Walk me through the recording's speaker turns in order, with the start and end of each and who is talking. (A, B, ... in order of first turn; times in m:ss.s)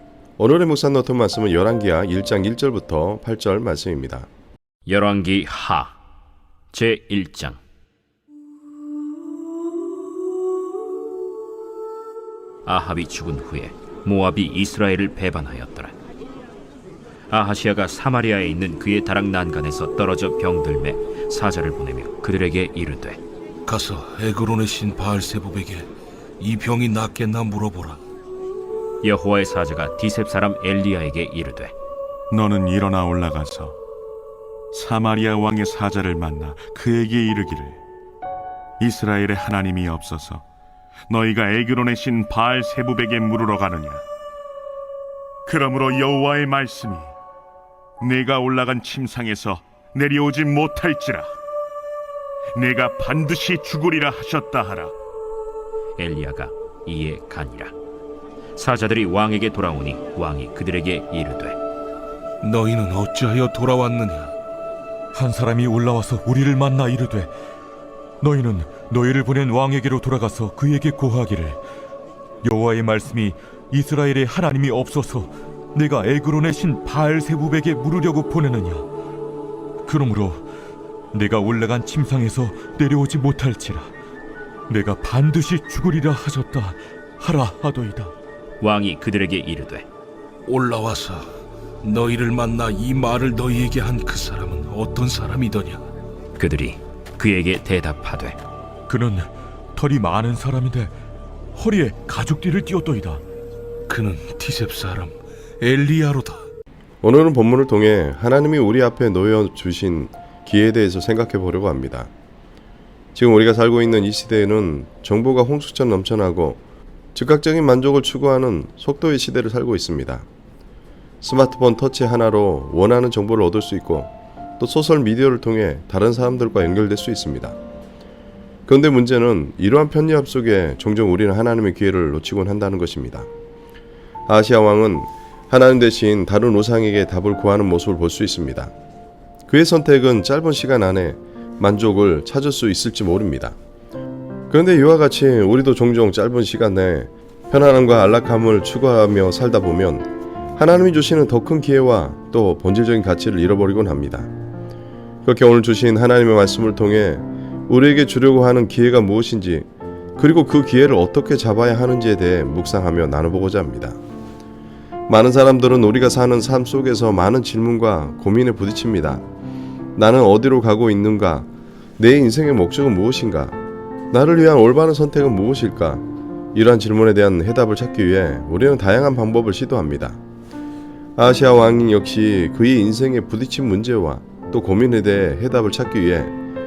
0:00.4-0:04.3 A
0:04.9-0:06.0 B
0:06.7-0:07.6 B
0:12.6-0:15.9 B
0:17.3-0:23.2 B
0:23.6-0:25.9 C
0:26.4-0:28.0 C
0:29.0-0:31.7 B
0:32.3-0:33.7 D
0:34.7-0:37.8 D
0:38.8-0:40.4 D
0:41.1-0:44.0 D
0:45.4-0:47.1 D
0:48.0-0:51.3 D
0:52.6-0:54.9 D
0:56.0-0:57.7 B
0:58.6-1:01.6 B
1:02.4-1:04.3 C
1:05.1-1:07.3 E
1:08.2-1:11.6 E
1:12.4-1:18.9 E
1:19.8-1:20.4 E
1:21.1-1:23.9 E
1:24.7-1:28.1 E
1:28.6-1:29.8 B
1:30.4-1:31.2 C
1:31.8-1:35.8 C
1:36.4-1:38.4 B
1:38.9-1:40.9 E
1:41.5-1:43.2 E
1:43.9-1:46.4 C
1:47.0-1:52.1 A
1:53.1-1:56.6 A
1:57.1-2:00.2 A
2:01.2-2:07.6 A
2:08.6-2:13.3 A
2:14.3-2:18.7 A
2:19.5-2:23.6 A
2:24.5-2:34.3 A
2:35.2-2:44.0 A
2:45.1-2:49.2 A
2:50.0-2:53.6 A
2:54.1-2:56.0 A
2:56.5-3:00.2 A
3:01.2-3:06.3 A